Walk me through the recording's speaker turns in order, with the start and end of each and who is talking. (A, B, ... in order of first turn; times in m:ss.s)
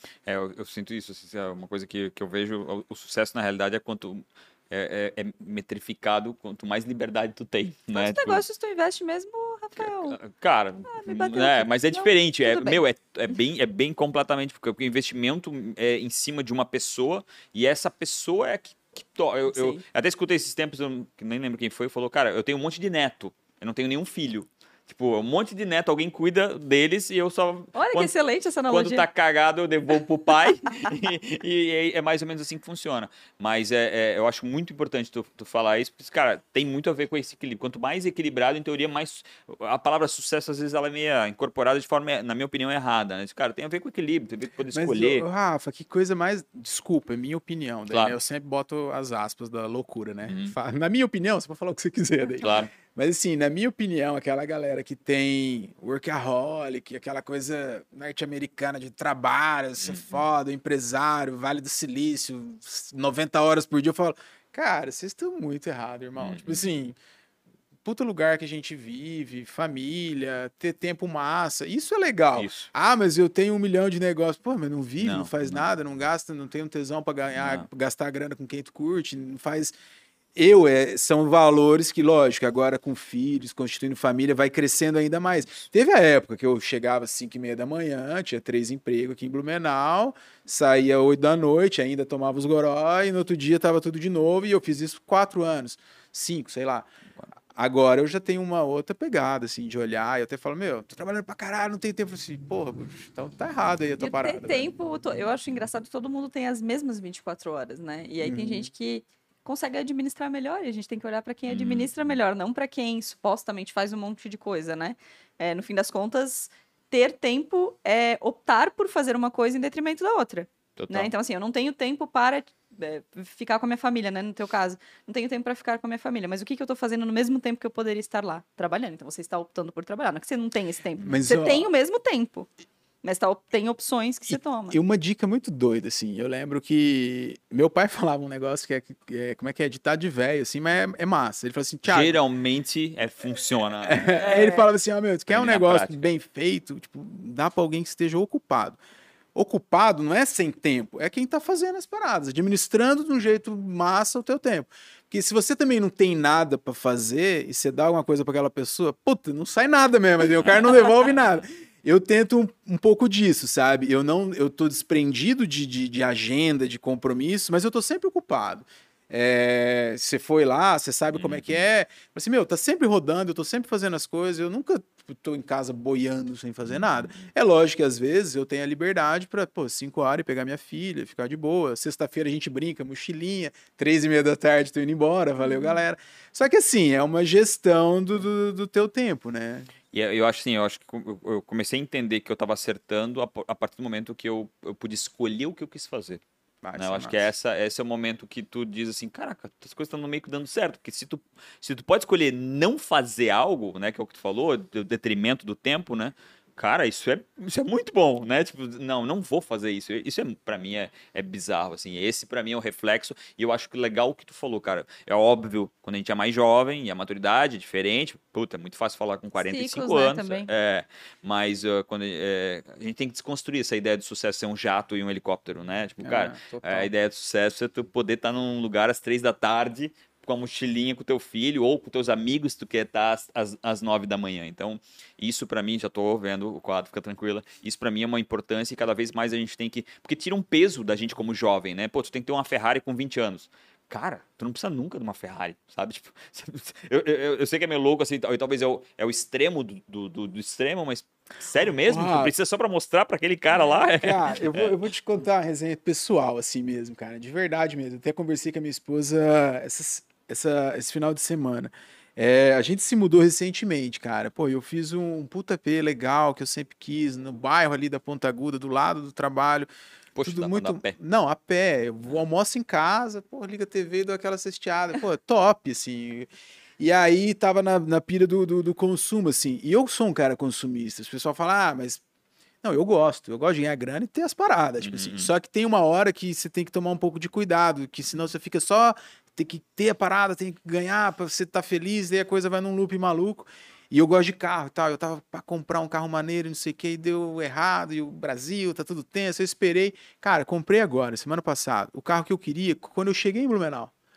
0:00.2-0:08.4 A
0:07.9-0:10.2 B
0:09.8-0:28.1 A
0:10.9-0:12.8 B
0:19.5-0:19.8 B
0:27.7-0:29.0 B
0:28.7-0:45.2 A
0:44.7-1:07.0 C
0:47.9-0:48.2 A
0:50.3-0:50.6 A
0:52.4-0:52.7 A
0:59.8-1:00.2 A
1:06.2-1:06.6 A
1:07.8-1:19.7 C
1:12.3-1:12.7 A
1:15.0-1:15.7 A
1:17.3-1:17.7 A
1:20.4-1:36.9 C
1:37.5-1:44.7 C
1:44.0-2:12.5 B
1:48.2-1:48.7 C
1:51.5-1:51.9 A
2:00.8-2:01.1 A
2:11.0-2:11.7 C
2:13.0-2:14.8 B
2:14.3-2:22.2 C
2:21.8-2:24.5 A
2:23.8-2:28.8 C
2:24.2-2:24.6 B
2:25.3-2:26.0 A
2:29.3-3:09.7 C
2:40.4-2:41.1 A
2:51.1-2:51.6 A
2:56.7-2:57.2 A
3:09.9-3:16.2 A
3:16.6-3:17.3 C
3:16.8-4:14.8 A
3:39.4-3:40.5 B
3:46.0-3:46.9 C
4:11.8-4:12.3 C
4:13.5-4:29.7 C
4:30.1-4:31.0 A
4:30.2-4:42.0 C
4:42.6-5:03.9 C
4:44.8-4:45.3 A